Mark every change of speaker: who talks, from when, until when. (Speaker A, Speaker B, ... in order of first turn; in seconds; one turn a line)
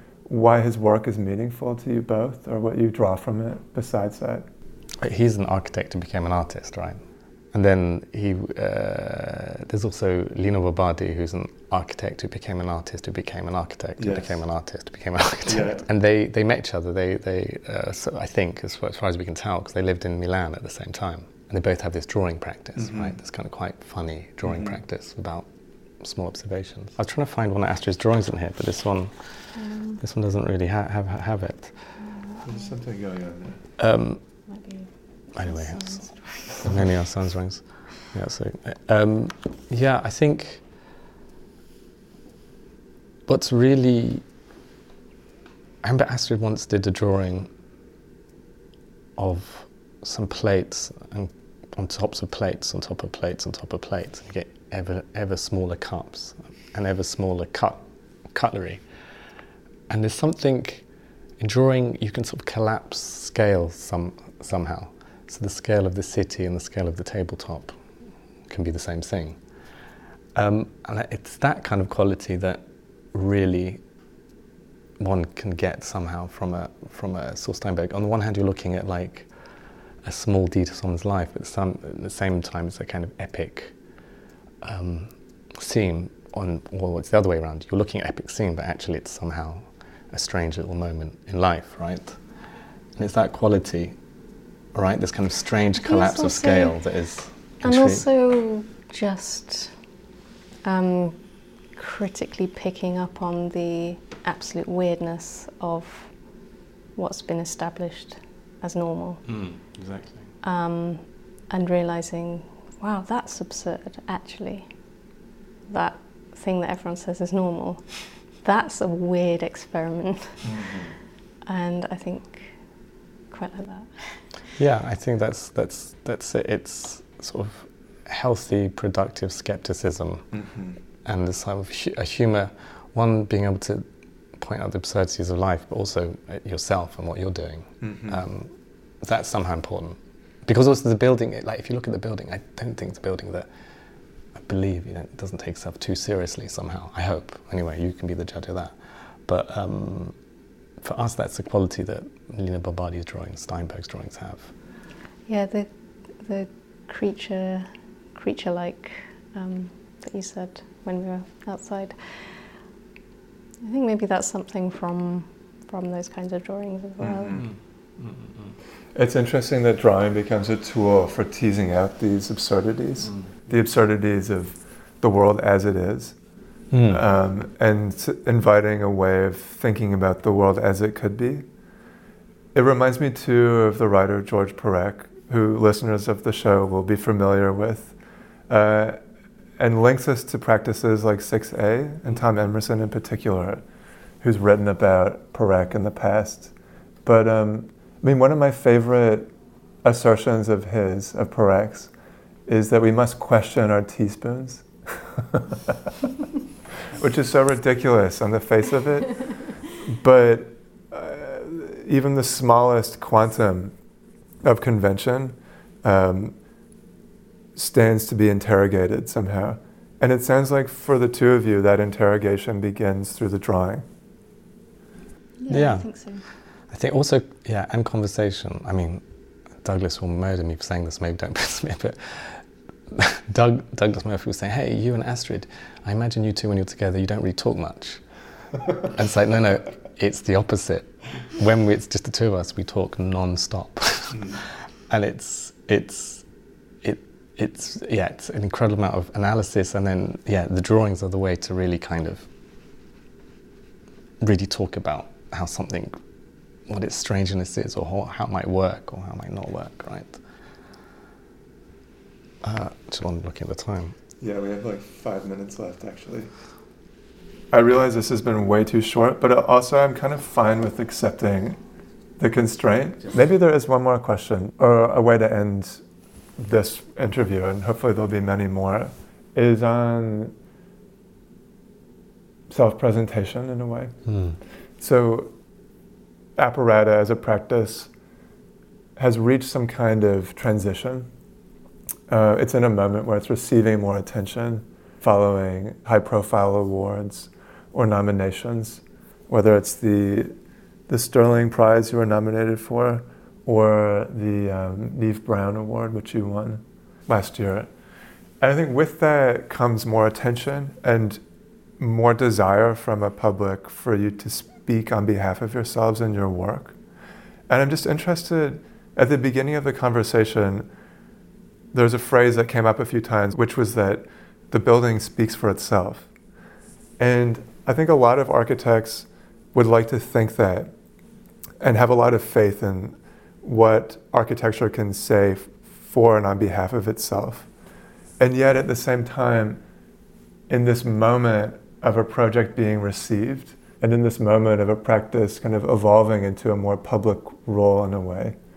Speaker A: 0.3-4.4
Speaker B: 5.0-7.0
Speaker B: 7.5-25.5
Speaker A: 14.0-14.4
Speaker A: 15.5-15.8
Speaker A: 22.8-23.1
Speaker A: 24.4-24.8
Speaker B: 26.0-29.2
Speaker C: 29.5-30.0
Speaker B: 30.0-31.9
Speaker C: 32.0-32.6
Speaker A: 32.4-33.6
Speaker B: 33.8-34.2
Speaker C: 34.5-34.9
Speaker B: 35.3-40.6
Speaker C: 35.4-36.6
Speaker B: 43.3-44.2
Speaker B: 45.8-47.5
Speaker B: 49.2-58.8
Speaker B: 59.9-60.8
Speaker B: 61.4-67.8
Speaker B: 68.5-69.4
Speaker B: 70.3-73.8
Speaker B: 75.0-79.3
Speaker B: 80.0-83.7
Speaker B: 84.6-92.2
Speaker B: 93.0-94.0
Speaker B: 94.7-98.0
Speaker C: 95.8-96.8
Speaker C: 97.6-99.7
Speaker C: 100.6-101.2
Speaker C: 101.7-106.1
Speaker C: 107.0-109.2
Speaker B: 109.2-110.3
Speaker C: 110.4-114.7
Speaker C: 115.7-120.5
Speaker A: 120.4-120.9
Speaker C: 121.5-122.5
Speaker C: 123.3-124.2
Speaker B: 124.6-130.4
Speaker A: 130.4-130.7
Speaker B: 131.0-133.8
Speaker B: 134.3-143.5
Speaker A: 137.8-138.2
Speaker B: 144.3-148.7
Speaker B: 149.2-150.1
Speaker B: 150.8-154.5
Speaker C: 155.3-155.7
Speaker C: 156.2-161.9
Speaker C: 163.6-167.4
Speaker A: 167.0-167.4
Speaker B: 167.3-168.6
Speaker A: 168.9-176.2
Speaker B: 176.7-177.0
Speaker A: 176.9-181.4
Speaker A: 182.5-187.9
Speaker A: 188.5-189.0
Speaker A: 189.6-193.6
Speaker A: 194.2-196.5
Speaker A: 197.0-199.3
Speaker A: 199.8-201.9
Speaker A: 202.5-205.9
Speaker A: 207.0-213.7
Speaker A: 214.4-216.3
Speaker A: 217.5-223.8
Speaker C: 225.4-226.2
Speaker B: 225.5-225.9
Speaker B: 226.7-229.0
Speaker B: 229.6-238.0
Speaker B: 238.8-246.2
Speaker B: 246.8-252.3
Speaker B: 254.2-255.9
Speaker B: 256.7-260.2
Speaker B: 262.4-263.9
Speaker A: 264.2-266.3
Speaker A: 267.5-271.6
Speaker A: 272.2-275.8
Speaker A: 276.4-280.3
Speaker A: 282.5-283.9
Speaker B: 284.1-284.4
Speaker A: 284.8-285.3
Speaker A: 286.4-287.9
Speaker A: 288.9-291.1
Speaker A: 292.1-300.3
Speaker A: 300.9-307.7
Speaker A: 308.4-311.2
Speaker A: 311.8-316.8
Speaker A: 317.5-320.7
Speaker A: 321.7-326.1
Speaker A: 327.0-330.7
Speaker A: 331.6-337.5
Speaker A: 338.2-339.6
Speaker A: 340.5-348.4